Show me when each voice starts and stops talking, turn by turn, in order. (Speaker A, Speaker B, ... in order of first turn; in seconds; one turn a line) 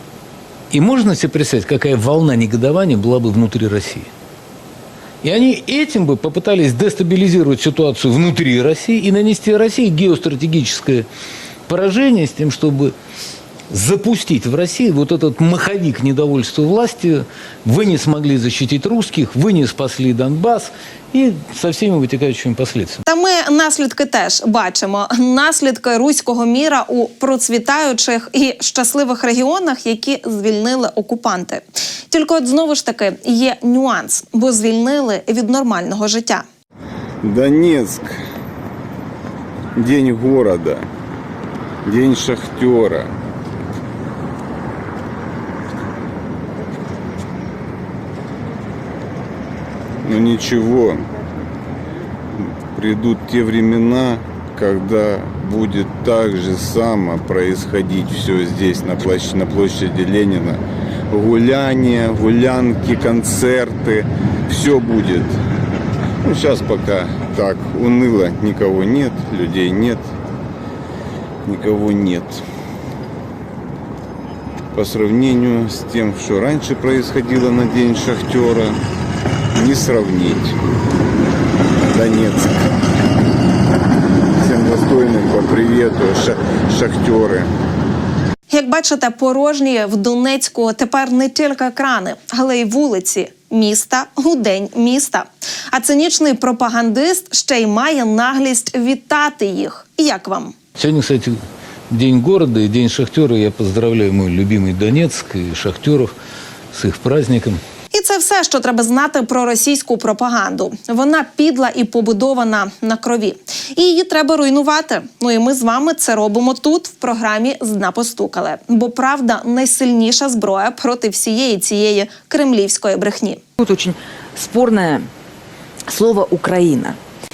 Speaker A: 0.7-4.1
Speaker A: 5.2-11.1
Speaker A: 11.7-12.9
Speaker A: 13.7-23.0
Speaker B: 23.1-36.4
Speaker C: 37.2-38.2
Speaker C: 39.8-40.9
Speaker C: 41.8-43.1
Speaker C: 50.0-51.0
Speaker C: 52.4-65.4
Speaker C: 66.2-70.1
Speaker C: 71.4-72.4
Speaker C: 74.7-78.8
Speaker C: 79.5-80.6
Speaker C: 81.9-82.6
Speaker C: 84.4-87.5
Speaker B: 88.5-100.5
Speaker A: 100.8-101.3
Speaker A: 101.9-106.1
Speaker A: 106.7-107.6
Speaker B: 107.9-123.4
Speaker D: 123.6-125.1
Speaker D: 125.9-127.0